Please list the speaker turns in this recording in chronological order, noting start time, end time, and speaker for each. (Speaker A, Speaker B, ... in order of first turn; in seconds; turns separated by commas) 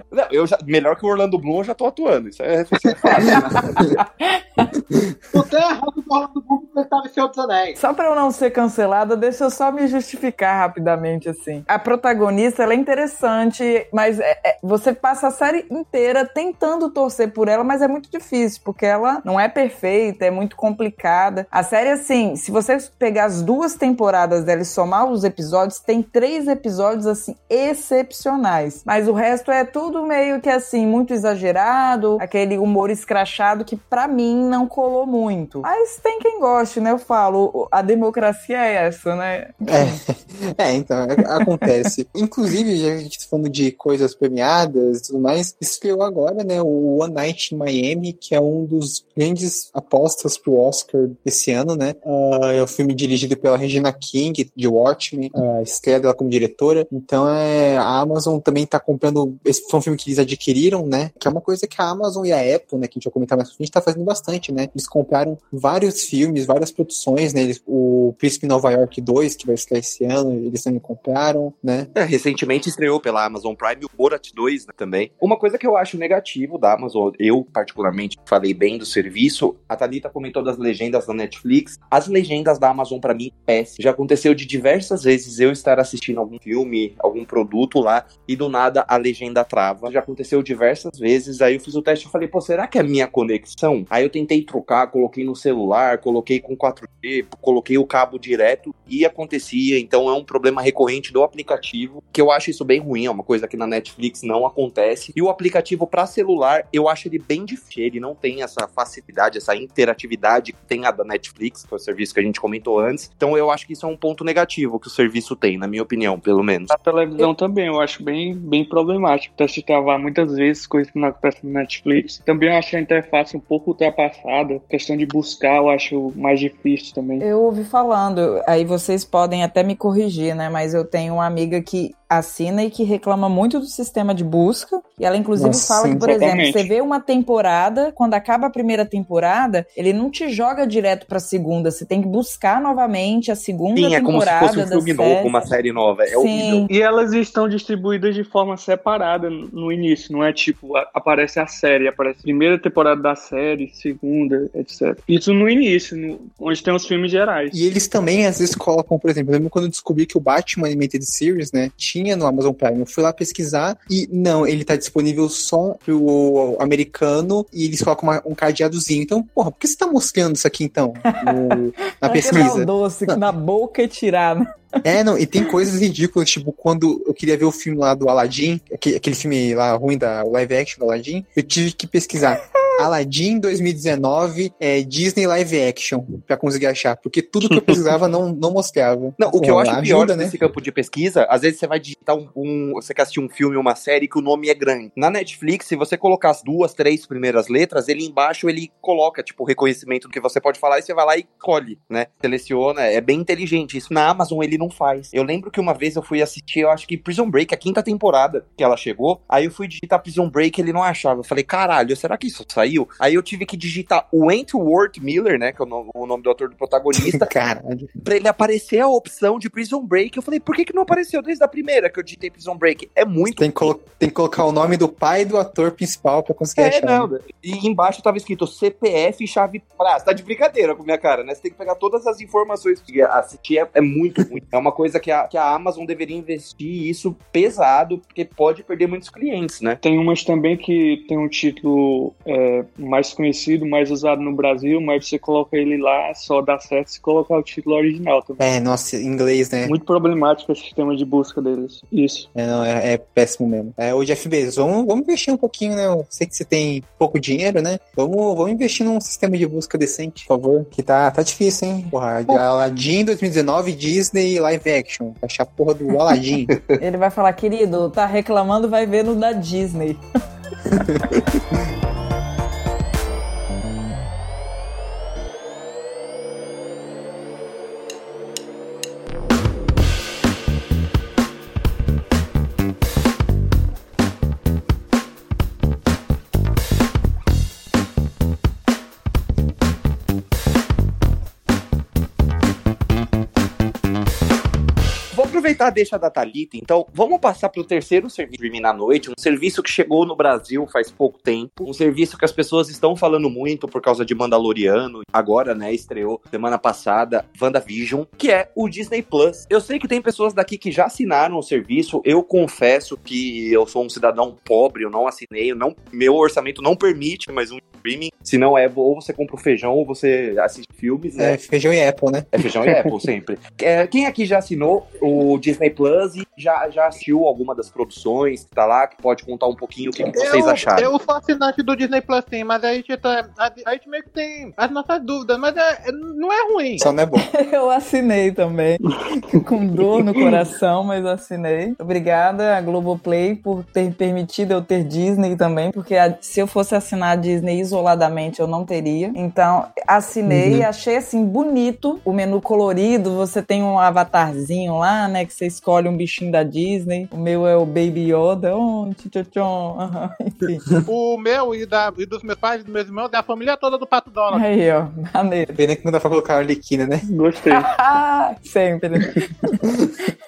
Speaker A: 0.1-3.7, Speaker B: 3.6-4.7, Speaker C: 5.3-7.8, Speaker B: 7.8-40.0, Speaker D: 39.7-71.9, Speaker A: 72.0-116.7, Speaker E: 116.7-127.2, Speaker B: 127.2-145.4, Speaker D: 135.4-136.2, Speaker E: 136.1-136.7, Speaker A: 143.7-146.7, Speaker B: 146.1-146.7, Speaker E: 146.7-157.6, Speaker D: 157.5-173.3, Speaker B: 171.1-171.4, Speaker B: 171.9-174.8, Speaker D: 174.8-190.4, Speaker E: 187.5-187.8, Speaker A: 189.2-217.3, Speaker D: 216.9-217.9, Speaker A: 218.0-223.7, Speaker D: 223.4-227.1, Speaker A: 226.6-239.8, Speaker E: 239.8-248.4, Speaker D: 248.4-249.8, Speaker E: 249.7-252.3, Speaker D: 252.3-266.5, Speaker B: 266.8-270.0, Speaker D: 270.7-271.2, Speaker A: 295.1-321.4, Speaker D: 321.2-322.3, Speaker A: 322.3-330.9, Speaker C: 330.2-336.9, Speaker D: 336.8-337.3, Speaker B: 337.2-360.8, Speaker D: 350.3-350.7, Speaker C: 360.9-364.4, Speaker B: 364.3-365.6, Speaker D: 365.6-367.1, Speaker E: 367.1-367.7, Speaker B: 367.5-369.6